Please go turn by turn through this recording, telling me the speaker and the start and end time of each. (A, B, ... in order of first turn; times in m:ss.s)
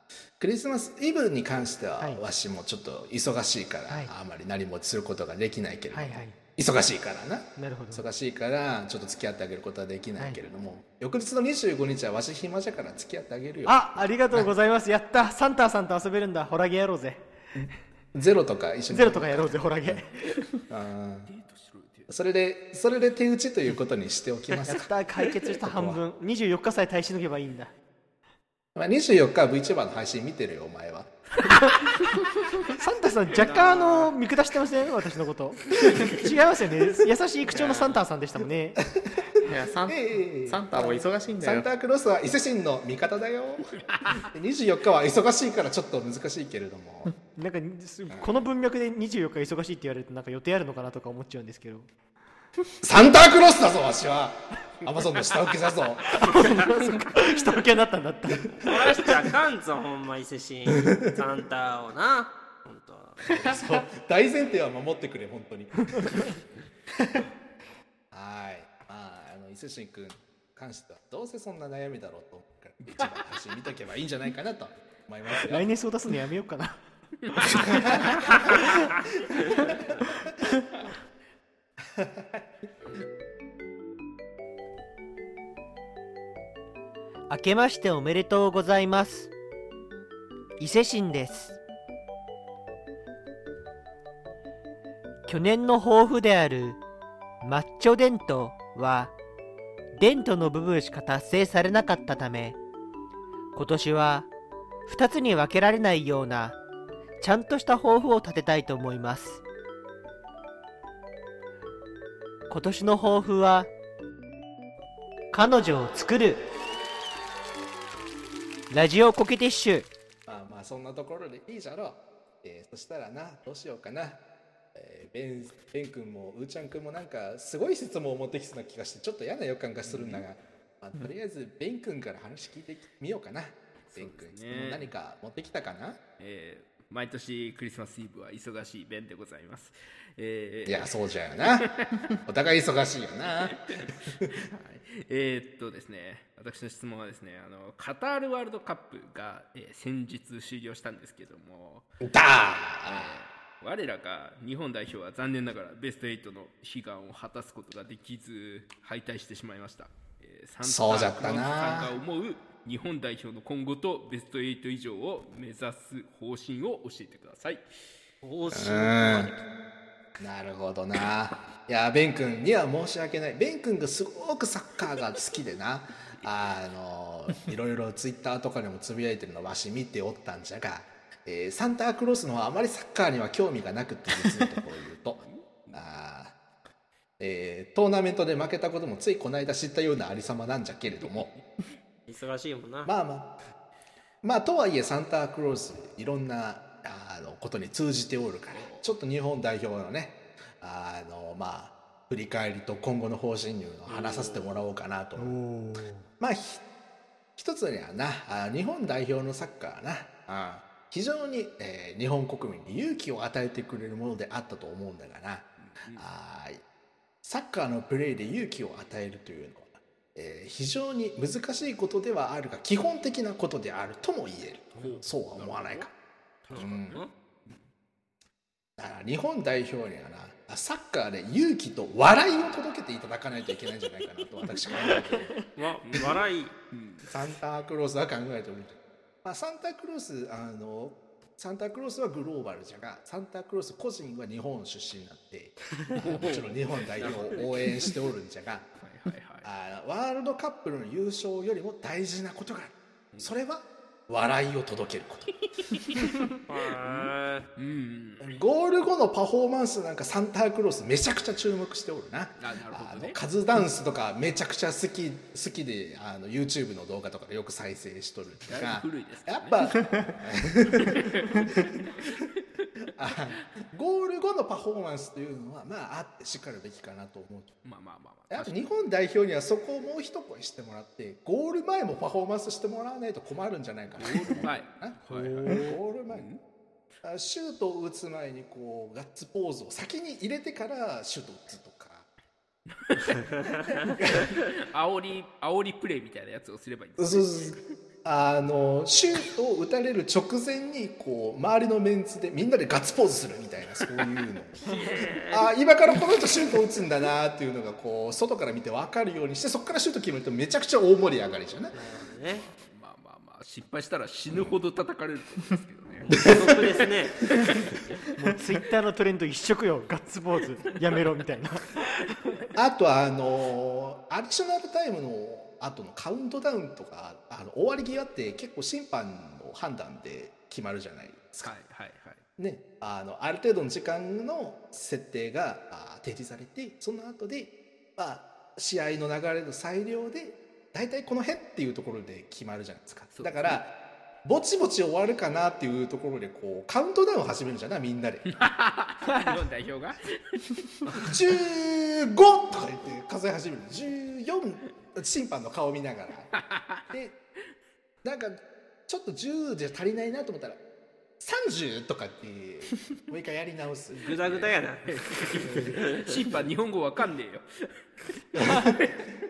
0:00.4-0:14.5 A
0:05.9-0:06.4 B
0:07.6-0:08.0 B
0:13.6-0:17.2 B
0:17.6-0:20.0 A
0:18.9-0:20.3 B
0:20.7-0:21.3 A
0:21.3-0:22.1 C
0:22.1-0:24.9 A
0:24.7-0:27.7 B
0:25.6-0:26.0 A
0:28.7-0:31.1 A
0:32.8-0:38.8 B
0:33.4-0:34.1 D
0:37.5-0:38.0 E
0:39.4-0:41.7 E
0:39.8-0:47.1 A
0:43.9-0:44.3 C
0:47.3-0:51.9 B
0:52.8-0:56.2 A
0:56.2-0:58.8 B
0:58.6-1:03.5 D
1:03.4-1:06.3 A
1:08.1-1:15.7 A
1:15.4-1:16.8 B
1:17.4-1:18.0 B
1:21.9-1:22.4 A
1:27.3-1:29.3 B
1:30.6-1:31.6 B
1:35.2-1:36.8 B
1:37.4-1:39.1 B
1:39.9-1:42.6 B
1:43.5-1:44.3 B
1:44.9-1:46.6 B
1:47.2-1:49.4 B
1:52.5-1:53.7 B
1:55.3-1:56.4 B
1:58.7-1:59.9 B
2:00.2-2:04.2 A
2:04.7-2:16.0 A
2:09.8-2:10.2 C
2:13.9-2:14.9 C
2:16.2-2:22.1 C
2:20.6-2:21.7 A
2:22.2-2:23.6 A
2:23.5-2:31.8 C
2:32.0-2:33.2 A
2:32.9-2:47.7 C
2:40.6-2:42.0 A
2:48.2-2:49.4 D
2:48.5-2:49.3 A
2:50.2-3:05.2 A
3:05.2-3:05.8 C
3:05.7-3:06.3 A
3:07.2-3:11.3 A
3:10.9-3:11.5 C
3:12.1-3:12.9 D
3:12.8-3:13.3 A
3:14.2-3:25.4 A
3:18.5-3:18.9 C
3:23.9-3:24.5 C
3:25.2-3:26.1 B
3:26.2-3:26.6 A
3:27.4-3:36.6 A
3:35.6-3:36.1 C
3:37.2-3:45.9 A
3:44.7-3:45.9 C
3:46.4-3:47.6 C
3:46.5-3:47.1 D
3:46.5-3:47.0 A
3:48.8-3:55.4 A
3:55.6-3:56.5 D
3:55.8-3:57.1 C
3:57.1-4:08.7 A
4:06.0-4:07.9 C
4:08.8-4:09.5 C
4:09.4-4:15.3 A
4:15.3-4:16.2 C
4:16.5-4:17.4 D
4:16.8-4:18.3 C
4:18.2-4:31.1 A
4:22.4-4:23.2 C
4:28.4-4:29.8 C
4:30.8-4:32.2 C
4:33.0-4:37.6 A
4:37.6-4:38.6 C
4:38.3-4:46.3 A
4:44.0-4:46.4 C
4:45.1-4:45.8 B
4:47.0-4:52.1 A
4:52.7-4:53.2 C
4:53.9-4:54.3 A
4:54.2-4:57.6 C
4:57.0-5:04.6 A
5:04.6-5:04.9 C
5:04.7-5:05.4 D
5:05.3-5:11.7 A
5:11.7-5:12.4 D
5:12.4-5:16.4 C
5:16.0-5:17.2 D
5:16.1-5:16.6 A
5:18.2-5:21.7 B
5:22.6-5:31.5 A
5:31.4-5:32.2 C
5:32.4-5:43.7 A
5:43.1-5:43.6 C
5:44.2-5:48.4 A
5:48.3-5:51.1 C
5:50.9-5:56.3 A
5:56.3-5:56.8 C
5:56.9-5:57.2 A
5:58.0-6:00.6 A
6:01.2-6:04.1 A
6:04.0-6:07.8 C
6:04.0-6:04.9 D
6:05.6-6:06.2 D
6:08.3-6:09.1 C
6:08.4-6:08.8 A